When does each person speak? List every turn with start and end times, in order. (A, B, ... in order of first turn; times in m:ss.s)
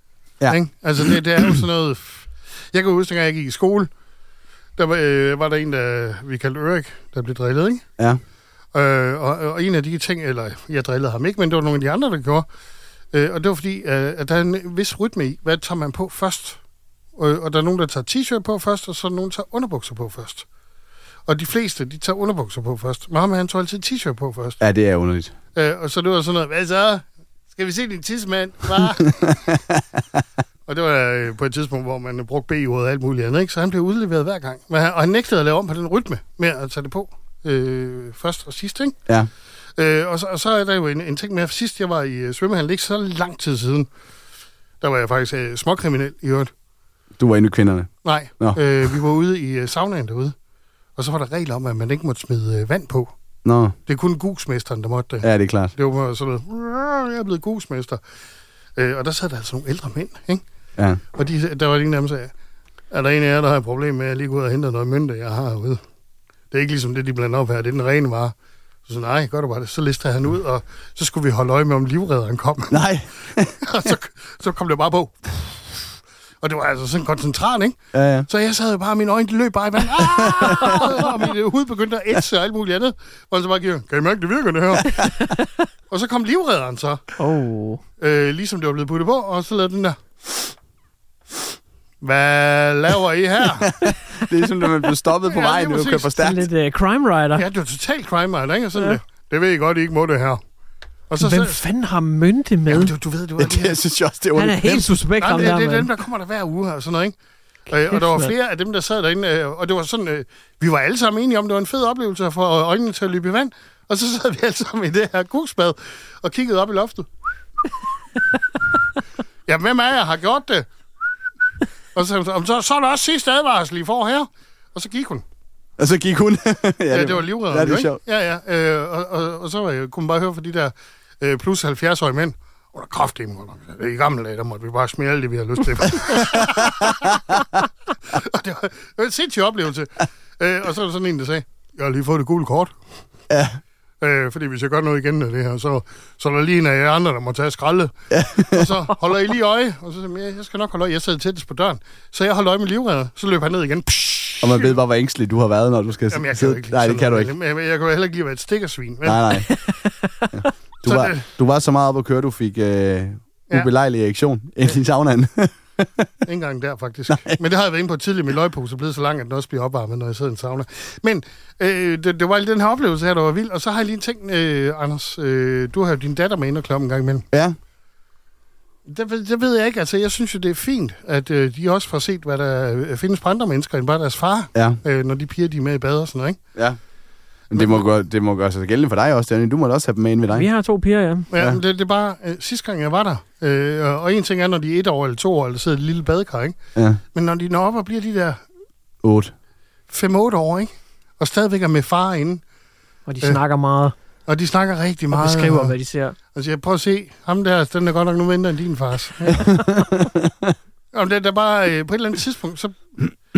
0:00.4-0:01.1 A
0:00.5-0:03.9 B
0:04.8-0:07.8 B
0:08.7-0:12.4 B
0:13.1-0:16.6 B
0:17.2-0:20.4 B
0:21.3-0:24.6 B
0:24.6-0:25.3 A
0:25.6-0:29.4 B
0:29.2-0:30.2 A
0:30.7-0:39.0 B
0:39.8-0:43.9 B
0:44.8-0:46.5 B
0:47.2-0:48.6 A
0:48.0-0:50.3 B
0:51.0-0:53.1 B
0:53.4-0:53.8 A
0:53.9-0:58.0 B
0:55.2-0:55.7 A
0:58.8-1:00.4 B
1:01.1-1:02.3 B
1:02.9-1:05.8 B
1:06.5-1:08.3 B
1:08.9-1:12.8 B
1:12.7-1:13.9 A
1:13.6-1:15.3 B
1:16.4-1:17.8 B
1:17.9-1:18.3 A
1:18.3-1:25.0 B
1:20.0-1:20.9 A
1:24.9-1:25.6 C
1:25.9-1:27.0 B
1:27.2-1:27.8 C
1:28.0-1:30.4 B
1:32.0-1:33.7 B
1:33.6-1:36.5 A
1:35.2-1:36.1 B
1:36.2-1:37.4 C
1:37.4-1:40.4 B
1:41.1-1:41.6 B
1:41.2-1:42.9 C
1:42.7-1:43.8 B
1:43.4-1:44.9 A
1:44.3-1:45.9 C
1:45.2-1:47.1 B
1:47.7-1:57.1 B
1:47.9-1:48.3 C
1:59.5-2:00.7 B
2:01.9-2:05.2 B
2:05.8-2:08.0 A
2:06.9-2:17.2 B
2:16.0-2:17.4 A
2:18.1-2:22.7 B
2:23.3-2:23.6 A
2:24.0-2:27.9 B
2:28.1-2:28.7 A
2:28.5-2:34.8 B
2:34.4-2:37.3 A
2:36.1-2:39.2 B
2:39.0-2:39.5 A
2:39.7-2:40.2 C
2:40.3-2:46.1 A
2:40.8-2:41.2 B
2:46.2-2:57.2 B
2:58.8-3:06.4 B
3:04.5-3:04.8 A
3:07.5-3:07.8 B
3:07.5-3:10.5 A
3:10.3-3:11.3 C
3:11.3-3:16.6 B
3:16.8-3:17.0 A
3:17.1-3:18.4 B
3:19.0-3:19.3 A
3:19.9-3:22.4 B
3:23.1-3:23.9 C
3:24.3-3:25.7 B
3:25.1-3:26.2 C
3:26.3-3:29.4 B
3:29.4-3:30.5 A
3:30.9-3:32.8 B